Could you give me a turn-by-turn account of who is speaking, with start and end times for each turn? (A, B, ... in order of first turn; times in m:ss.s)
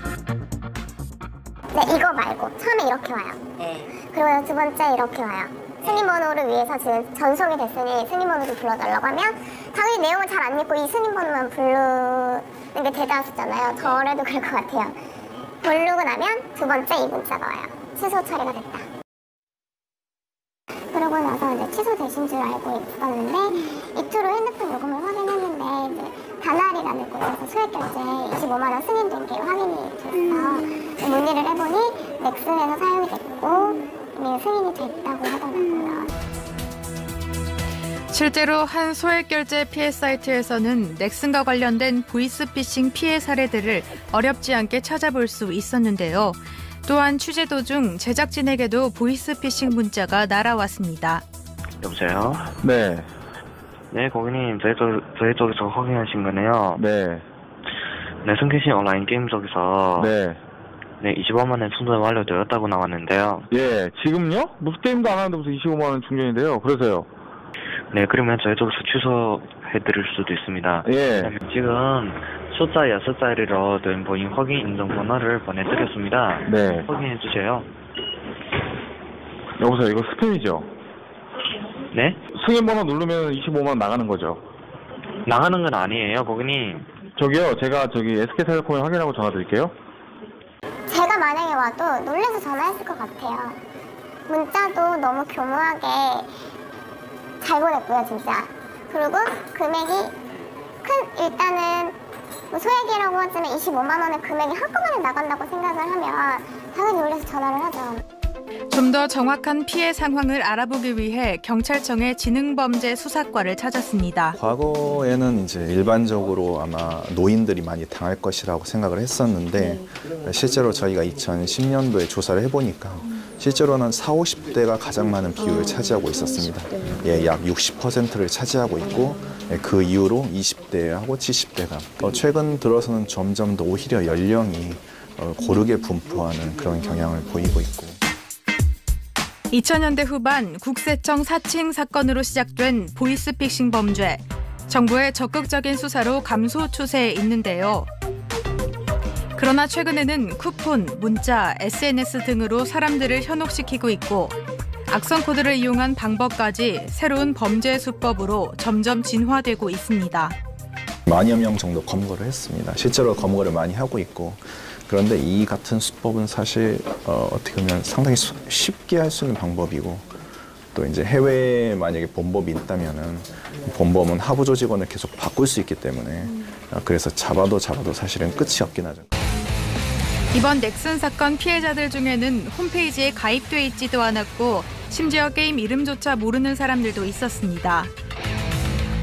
0:01.7-0:15.0 A
0:15.6-0:18.9 A
0:20.9-0:36.1 A
0:38.1-0:51.2 B
0:51.8-0:52.5 C
0:52.6-0:53.1 D
0:53.9-0:56.8 C
0:56.8-0:57.2 D
0:58.2-1:00.2 C
1:00.0-1:00.4 D
1:01.0-1:03.5 C
1:03.5-1:07.1 D
1:07.9-1:17.7 C
1:10.8-1:11.3 D
1:16.5-1:16.9 D
1:19.6-1:20.7 D
1:21.9-1:22.2 C
1:22.3-1:24.4 D
1:25.3-1:26.9 C
1:27.2-1:29.7 D
1:30.9-1:33.6 A
1:34.3-1:36.4 A
1:37.4-1:40.2 A
1:40.8-1:42.0 A
1:42.5-1:48.0 A
1:48.7-1:54.4 B
1:54.4-2:18.0 E
2:19.5-2:27.9 B
2:29.4-2:34.4 B
2:34.9-2:40.4 B
2:41.1-2:50.2 E
2:50.7-2:59.0 E
3:00.3-3:07.9 B